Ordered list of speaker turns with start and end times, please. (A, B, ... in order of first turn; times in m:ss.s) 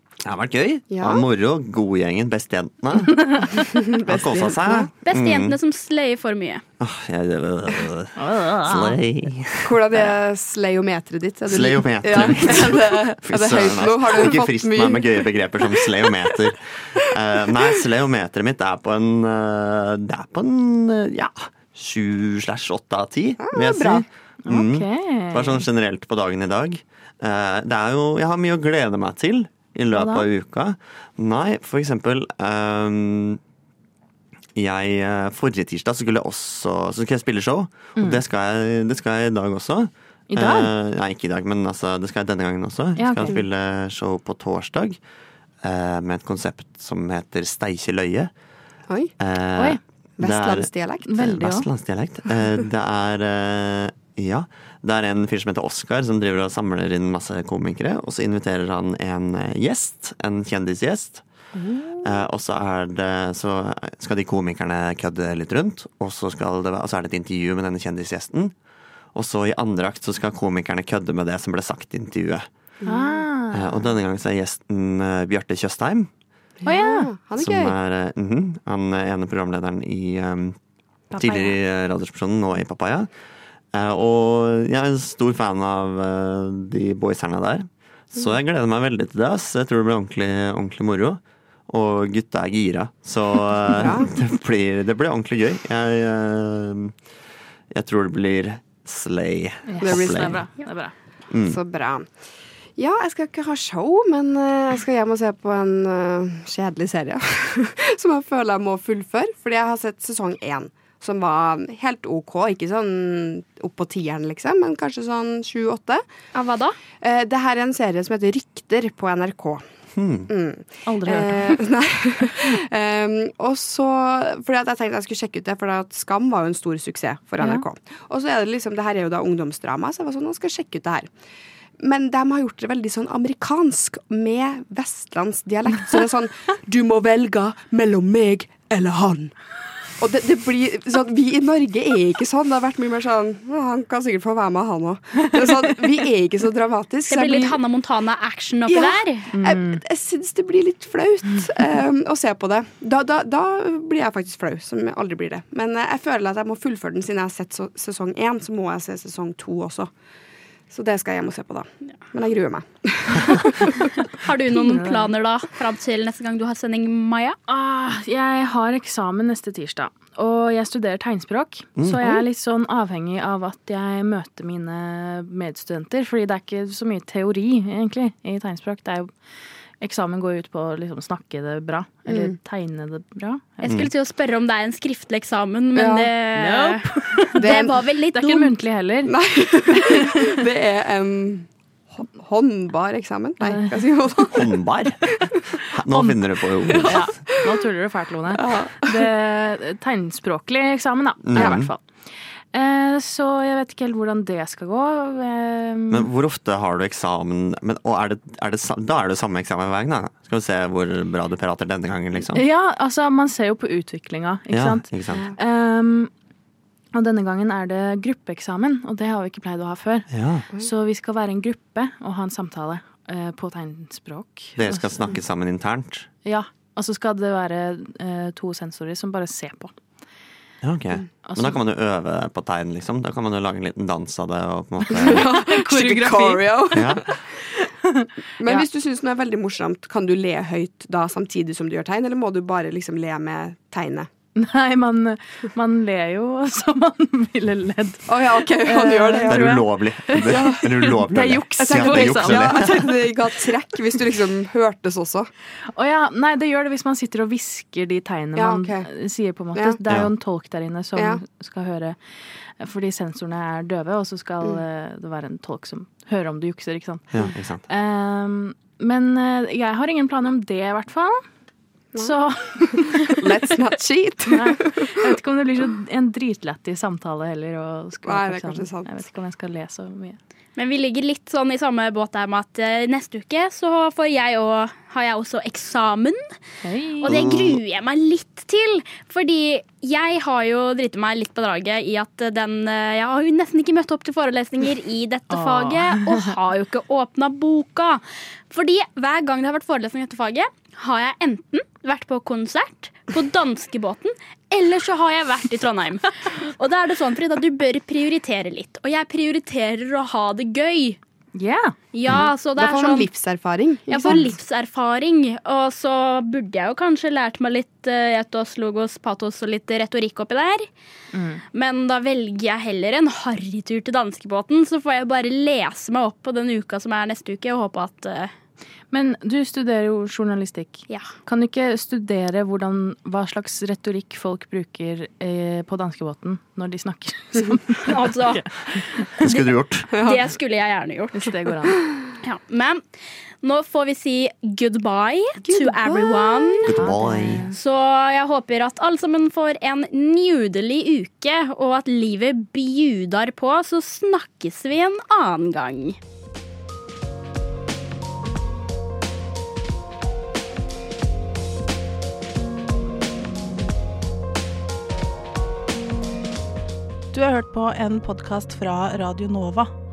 0:00.2-0:03.4 A
0:00.9-0:01.2 B
0:03.2-0:03.5 C
0:03.5-0:04.9 B
0:04.1-0:05.6 A
0:05.0-0:06.6 D
0:06.8-0:10.1 A
0:08.2-0:09.0 C
0:09.6-0:16.3 B
0:11.5-0:33.4 A
0:23.4-0:24.0 B
0:24.4-0:25.6 C
0:29.9-0:30.3 C
0:34.6-0:45.0 A
0:40.3-0:40.7 C
0:43.0-0:43.4 C
0:45.6-0:48.3 A
0:49.2-1:01.2 A
0:50.2-0:51.1 B
0:51.1-0:51.7 C
1:02.0-1:08.5 A
1:09.1-1:12.4 A
1:12.8-1:13.9 C
1:13.5-1:16.1 A
1:16.6-1:17.7 B
1:16.6-1:17.1 C
1:17.4-1:20.6 A
1:21.1-1:21.6 C
1:21.2-1:23.1 A
1:23.7-1:36.9 A
1:33.7-1:34.1 B
1:37.7-1:40.4 A
1:39.7-1:40.9 C
1:39.8-1:40.4 B
1:41.3-1:41.6 A
1:41.4-1:42.1 B
1:42.8-1:56.0 B
1:56.3-1:56.8 D
1:57.0-1:59.6 B
2:00.0-2:00.3 A
2:00.3-2:11.1 B
2:00.8-2:01.6 C
2:07.4-2:07.6 C
2:11.8-2:19.3 B
2:20.0-2:27.6 B
2:27.1-2:29.3 D
2:28.7-2:39.9 B
2:29.3-2:29.8 C
2:40.7-2:43.9 B
2:44.1-2:47.4 D
2:44.5-2:45.1 C
2:47.5-2:59.1 C
2:51.8-2:52.2 A
2:59.8-3:03.8 C
3:02.1-3:02.3 B
3:03.6-3:08.5 D
3:05.8-3:06.1 B
3:06.3-3:07.4 C
3:07.4-3:07.8 B
3:08.1-3:09.1 C
3:09.0-3:14.5 B
3:09.8-3:10.4 C
3:13.4-3:13.8 C
3:14.3-3:15.0 A
3:15.7-3:17.1 A
3:15.9-3:16.2 C
3:16.7-3:17.6 B
3:16.8-3:21.8 C
3:18.3-3:19.1 B
3:21.2-3:21.7 A
3:22.5-3:26.1 C
3:25.9-3:32.4 A
3:32.2-3:36.1 C
3:34.5-3:35.2 A
3:36.9-3:45.0 C
3:40.1-3:40.4 A
3:44.6-3:46.1 A
3:46.2-3:49.7 C
3:50.6-3:55.3 A
3:51.2-3:51.6 C
3:54.8-3:56.8 C
3:54.9-3:57.0 B
3:56.7-3:57.0 A
3:57.6-3:58.6 C
3:58.4-4:04.1 B
4:04.4-4:12.9 C
4:08.1-4:09.6 B
4:09.3-4:12.9 A
4:10.2-4:10.6 B
4:11.6-4:15.3 B
4:15.7-4:22.0 C
4:18.4-4:18.9 B
4:21.0-4:21.2 B
4:22.6-4:27.1 C
4:27.1-4:27.6 A
4:27.7-4:31.2 C
4:32.0-4:33.4 C
4:32.7-4:34.9 B
4:34.3-4:40.2 C
4:38.0-4:38.9 B
4:40.6-4:46.2 D
4:46.6-4:47.2 C
4:47.0-5:11.0 D
4:47.0-4:47.6 A
4:55.3-4:56.3 C
5:11.3-5:11.7 C
5:11.9-5:13.1 D
5:12.2-5:14.2 B
5:13.9-5:20.7 D
5:21.1-5:21.4 C
5:21.5-5:28.3 D
5:28.9-5:39.1 C
5:37.8-5:38.4 D
5:39.2-5:41.3 D
5:39.2-5:39.9 A
5:39.9-5:40.2 B
5:41.1-5:41.8 C
5:42.2-5:42.8 D
5:43.4-5:46.7 D
5:45.5-5:46.7 B
5:46.6-5:47.4 A
5:46.8-5:47.6 C
5:47.5-5:56.0 D
6:07.1-6:09.7 E